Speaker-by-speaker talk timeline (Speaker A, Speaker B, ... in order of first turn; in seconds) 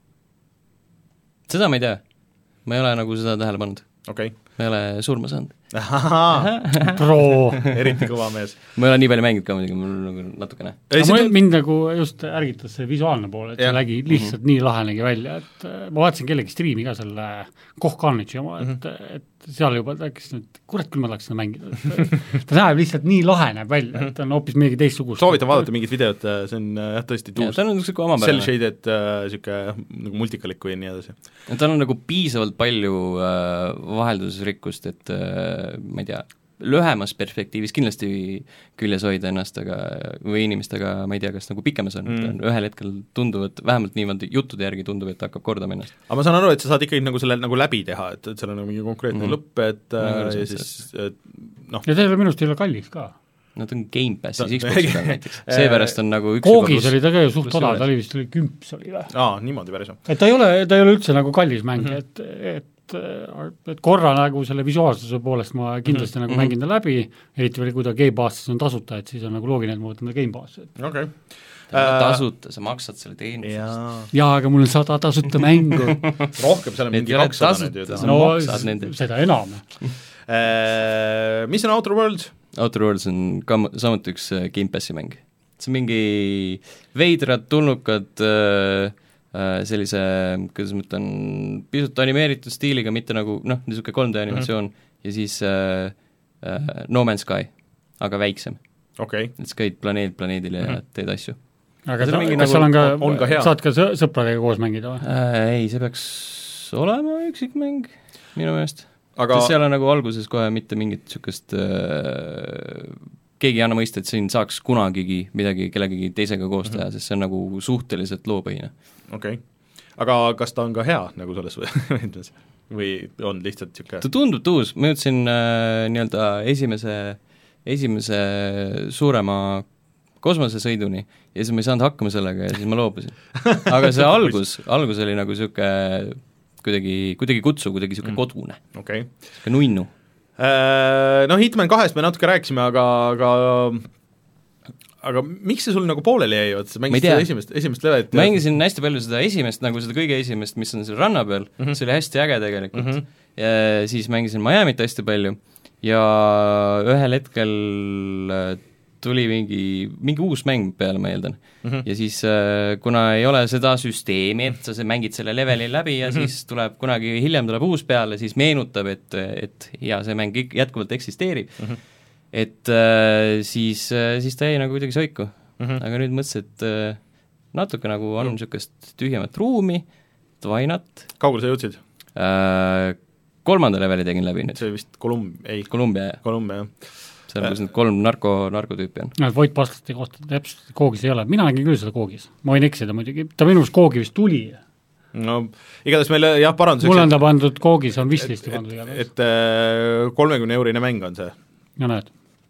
Speaker A: 1.5-2.0, 2.6-3.9, 4.6-5.5, 6.3-7.0, 8.8-10.8, 27.4-28.5, 31.5-45.9, 50.0-50.7, 53.6-57.8, 71.7-73.8, 75.9-76.3, 76.9-78.9, 82.5-98.6, 99.4-101.4, 102.0-103.1, 105.0-118.7, 124.0-129.7, 130.2-138.8, 139.4-139.9, 146.9-147.3, 148.1-171.7, 172.3-177.0, 177.5-179.8, 180.4-181.1, 182.2-184.6, 185.7-186.2, 187.3-189.2
Speaker B: 4.1-4.3, 5.7-6.5, 7.6-8.6, 10.9-11.4, 25.2-27.6, 28.1-31.1, 42.1-42.3, 46.1-51.9, 54.4-56.0, 59.1-60.0, 70.8-71.2, 71.7-72.2, 73.4-74.1, 76.3-78.3, 80.3-82.3, 99.0-99.3, 102.3-103.5, 109.2-109.5, 119.1-119.4, 120.0-124.0, 133.4-133.7, 138.8-139.1, 140.4-143.9, 145.0-148.4, 152.8-153.0, 181.2-181.8, 184.6-186.7, 195.1-197.2, 198.2-201.3
Speaker C: 6.9-7.7, 11.0-25.6, 51.9-53.1, 56.4-59.1, 60.1-70.7, 74.1-76.1, 78.0-79.6, 101.9-105.0, 189.2-194.6, 196.8-199.0, 201.8-202.1